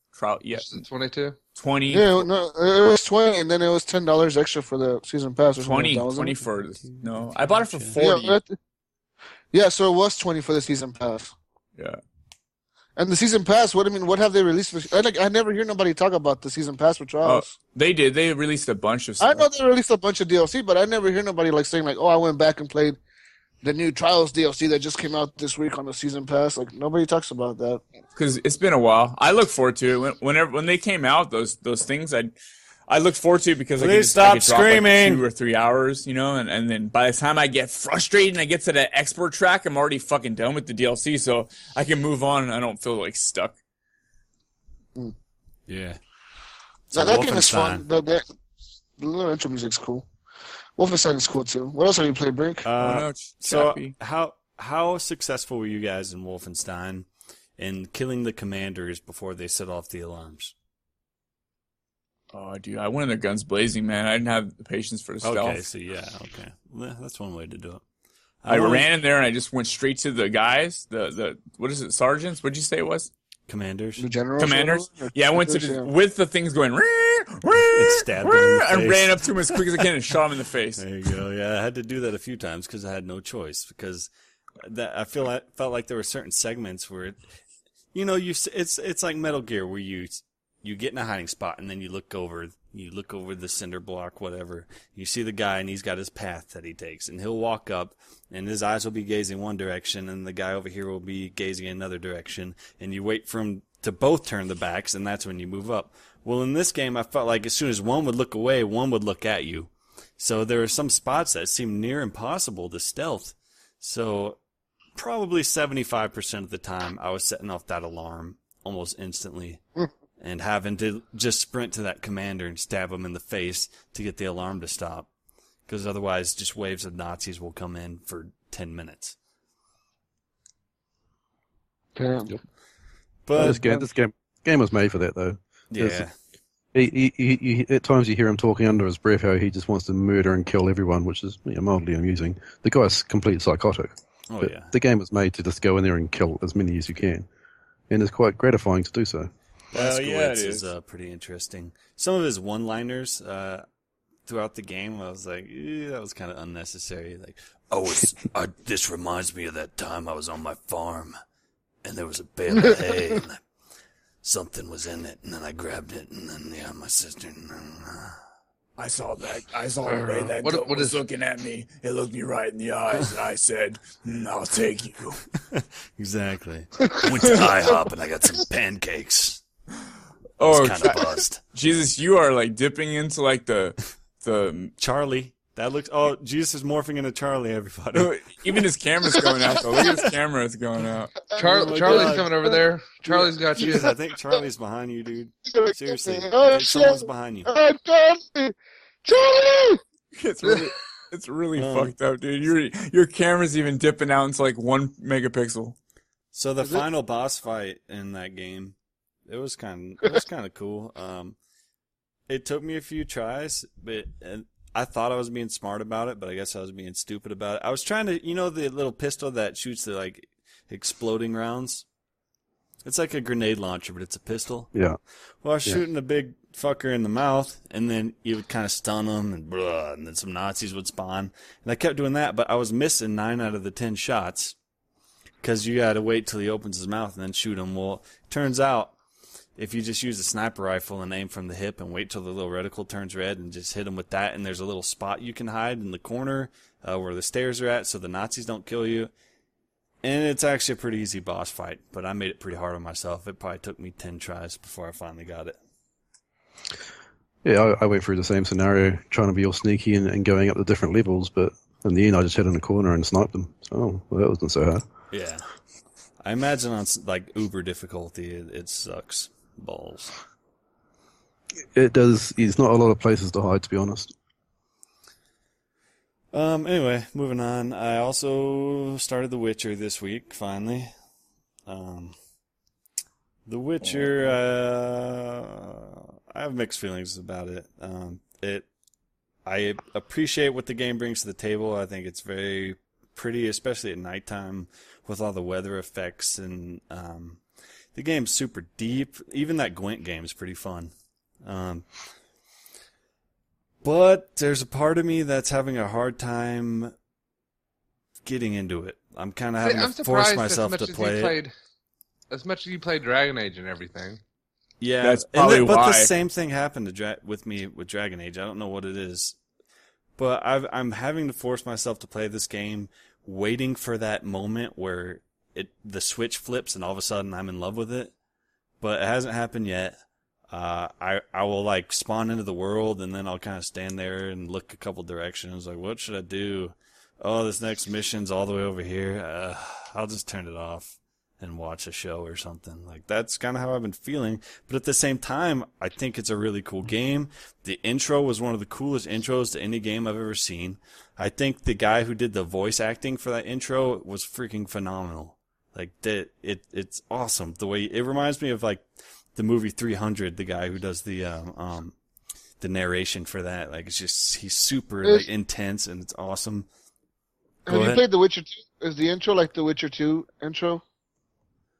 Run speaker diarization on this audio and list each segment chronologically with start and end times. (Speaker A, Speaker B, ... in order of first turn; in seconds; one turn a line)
Speaker A: 0.1-0.8
Speaker B: 0.5-1.4
Speaker A: 1.6-2.3
Speaker C: 1.9-6.4
Speaker A: 5.6-8.4
Speaker C: 8.0-8.6
Speaker C: 9.5-11.3
Speaker C: 13.0-17.5
Speaker A: 17.2-19.5
Speaker C: 19.2-23.0
Speaker C: 23.6-27.8
Speaker A: 28.1-32.3
Speaker A: 32.9-43.5
Speaker D: 33.8-35.2
Speaker D: 45.7-46.0
Speaker D: 46.9-47.8
Speaker C: 46.9-48.2
Speaker C: 49.0-50.0
Speaker C: 50.8-52.6
Speaker D: 52.6-60.5
Speaker A: 52.8-53.9
Speaker A: 62.3-65.6
Speaker D: 65.2-67.8
Speaker D: 68.4-68.9
Speaker A: 68.5-73.1
Speaker D: 73.5-74.1
Speaker C: 74.0-75.9
Speaker A: 74.4-80.8
Speaker D: 77.7-79.9
Speaker D: 80.8-87.2
Speaker D: 87.9-114.4
Speaker D: 115.0-119.6
Speaker D: 120.2-125.1
Speaker D: 125.7-129.2
Speaker C: 131.9-132.3
Speaker D: 133.2-133.9
Speaker E: 133.3-136.0
Speaker D: 135.7-136.1
Speaker E: 136.7-147.3
Speaker D: 144.3-144.7
Speaker E: 147.9-149.3
Speaker D: 149.7-153.6
Speaker A: 149.7-150.7
Speaker D: 154.2-161.1
Speaker D: 161.8-163.4
Speaker D: 164.2-168.2
Speaker A: 168.8-175.2
Speaker B: 169.9-171.0
Speaker D: 175.5-179.4
Speaker A: 180.4-184.7
Speaker D: 180.4-181.4
Speaker D: 184.8-188.6
Speaker A: 187.9-191.2
Speaker D: 189.7-190.0
Speaker B: 191.3-193.9
Speaker D: 191.4-192.3
Speaker C: 191.8-192.1
Speaker D: 193.1-197.5
Speaker C: 193.6-193.9
Speaker C: 195.5-199.8
Speaker A: 200.1-205.8
Speaker D: 201.5-201.9
Speaker D: 206.3-211.4
Speaker D: 212.3-221.8
Speaker D: 222.8-224.7
Speaker D: 225.4-234.5
Speaker D: 235.4-238.9
Speaker D: 239.6-249.1
Speaker D: 250.0-255.6
Speaker E: 257.4-264.8
Speaker D: 265.1-265.4
Speaker D: 266.2-270.1
Speaker E: 271.8-274.1
Speaker D: 276.3-280.9
Speaker D: 281.6-282.1
Speaker D: 283.4-288.7
Speaker A: 283.8-284.2
Speaker D: 289.4-297.4
Speaker D: 297.9-300.9
Speaker D: 301.4-301.9
Speaker D: 303.8-306.9
Speaker D: 308.2-311.4
Speaker B: 309.6-311.5
Speaker B: 312.3-314.2
Speaker D: 314.8-319.4
Speaker A: 315.0-316.1
Speaker D: 320.2-328.1
Speaker D: 328.8-330.0
Speaker D: 330.5-361.9
Speaker D: 362.6-366.7
Speaker C: 367.7-370.8
Speaker D: 367.7-368.0